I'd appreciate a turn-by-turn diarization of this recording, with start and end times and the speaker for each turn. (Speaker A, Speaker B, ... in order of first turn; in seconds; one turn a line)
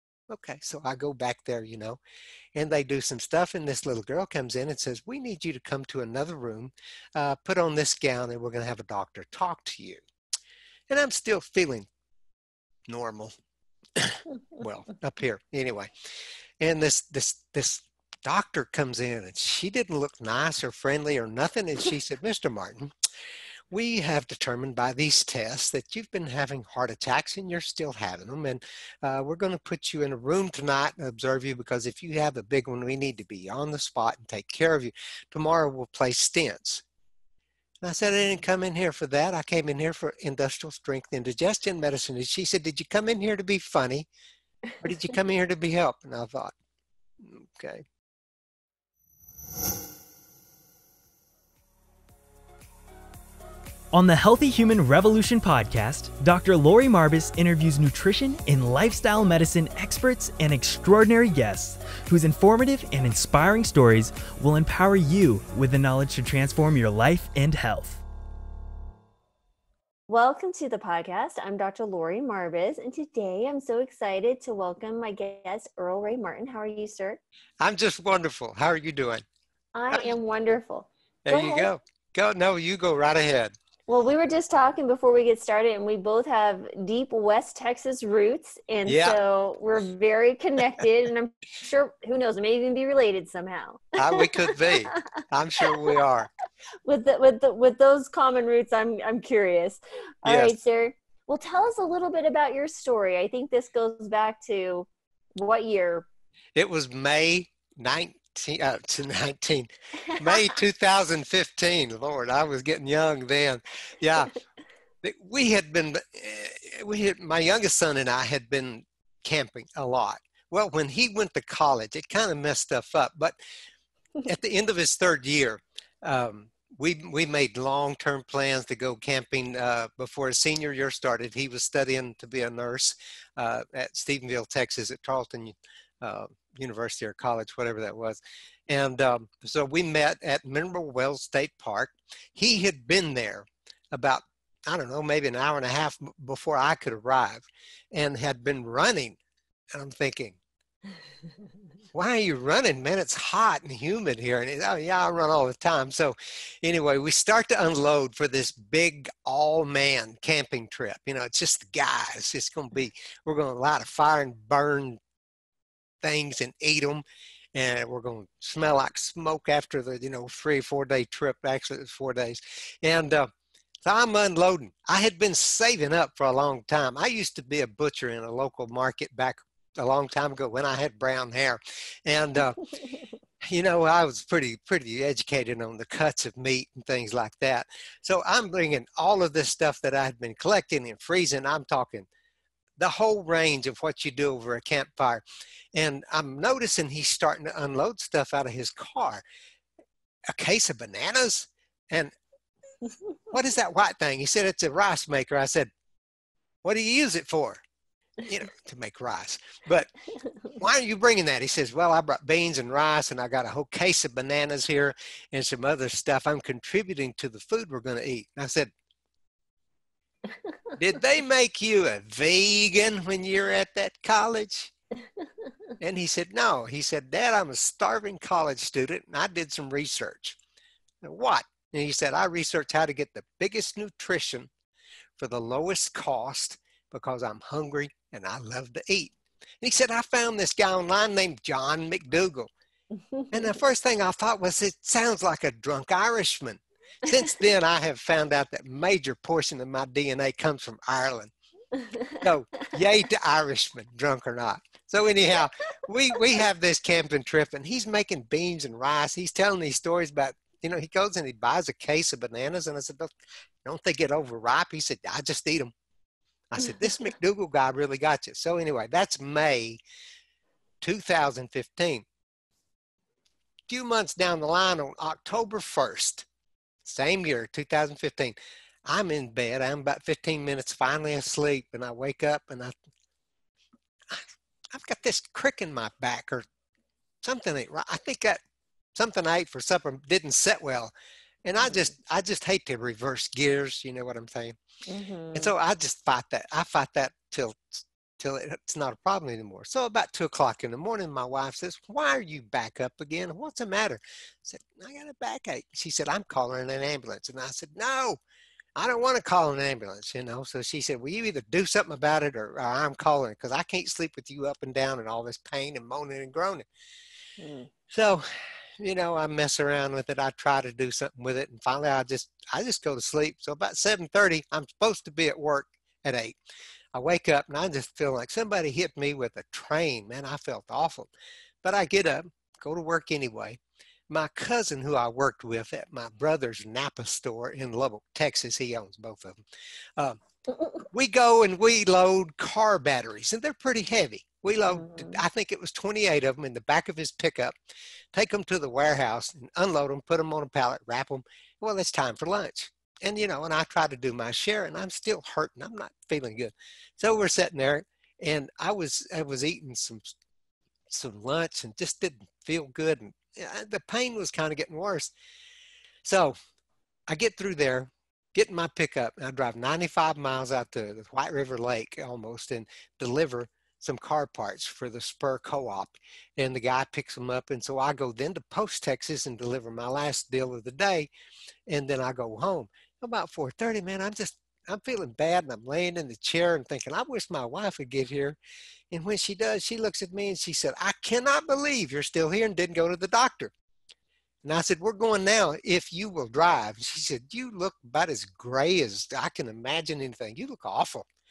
Speaker A: 0.3-2.0
Speaker A: 2.5-10.0
Speaker A: 10.9-11.9
Speaker A: 12.9-13.3
Speaker A: 14.0-15.9
Speaker A: 16.6-22.9
Speaker A: 23.7-36.8
Speaker A: 37.8-44.1
Speaker A: 44.8-46.5
Speaker A: 47.2-47.8
Speaker B: 53.9-68.0
Speaker C: 70.1-77.2
Speaker A: 77.6-79.2
Speaker C: 79.7-81.7
Speaker A: 81.2-83.5
Speaker C: 83.9-95.0
Speaker A: 88.8-89.2
Speaker A: 94.0-96.3
Speaker C: 95.6-96.0
Speaker C: 96.8-106.1
Speaker A: 100.2-100.5
Speaker A: 106.5-114.4
Speaker C: 110.2-110.5
Speaker A: 115.0-123.4
Speaker A: 124.2-149.2
Speaker A: 149.7-150.4
Speaker A: 151.9-165.0
Speaker A: 166.0-167.0
Speaker A: 167.5-173.3
Speaker A: 173.8-182.7
Speaker A: 183.4-192.1
Speaker A: 192.8-195.2
Speaker A: 195.7-199.2
Speaker A: 200.3-202.1
Speaker A: 203.3-205.7
Speaker A: 206.6-207.6
Speaker A: 208.2-209.9
Speaker A: 210.6-218.7
Speaker A: 220.8-224.7
Speaker A: 225.8-230.4
Speaker A: 231.0-234.5
Speaker A: 235.2-242.5
Speaker C: 243.1-243.5
Speaker A: 243.3-251.3
Speaker C: 251.8-252.2
Speaker A: 252.2-263.1
Speaker A: 263.6-265.7
Speaker A: 266.5-269.8
Speaker A: 270.8-272.1
Speaker A: 273.7-276.2
Speaker A: 276.8-278.3
Speaker A: 278.9-282.7
Speaker A: 284.1-286.5
Speaker A: 287.2-288.4
Speaker A: 288.9-290.9
Speaker A: 291.4-294.6
Speaker C: 294.9-295.5
Speaker A: 295.3-308.2
Speaker A: 308.8-316.6
Speaker C: 317.4-317.7
Speaker A: 317.9-326.3
Speaker A: 326.9-331.1
Speaker A: 331.6-339.4
Speaker A: 340.9-347.5
Speaker C: 344.7-345.2
Speaker A: 348.1-360.1
Speaker A: 360.9-365.1
Speaker A: 366.0-366.4
Speaker A: 367.1-381.1
Speaker A: 381.7-388.4
Speaker A: 388.9-393.5
Speaker A: 394.4-401.1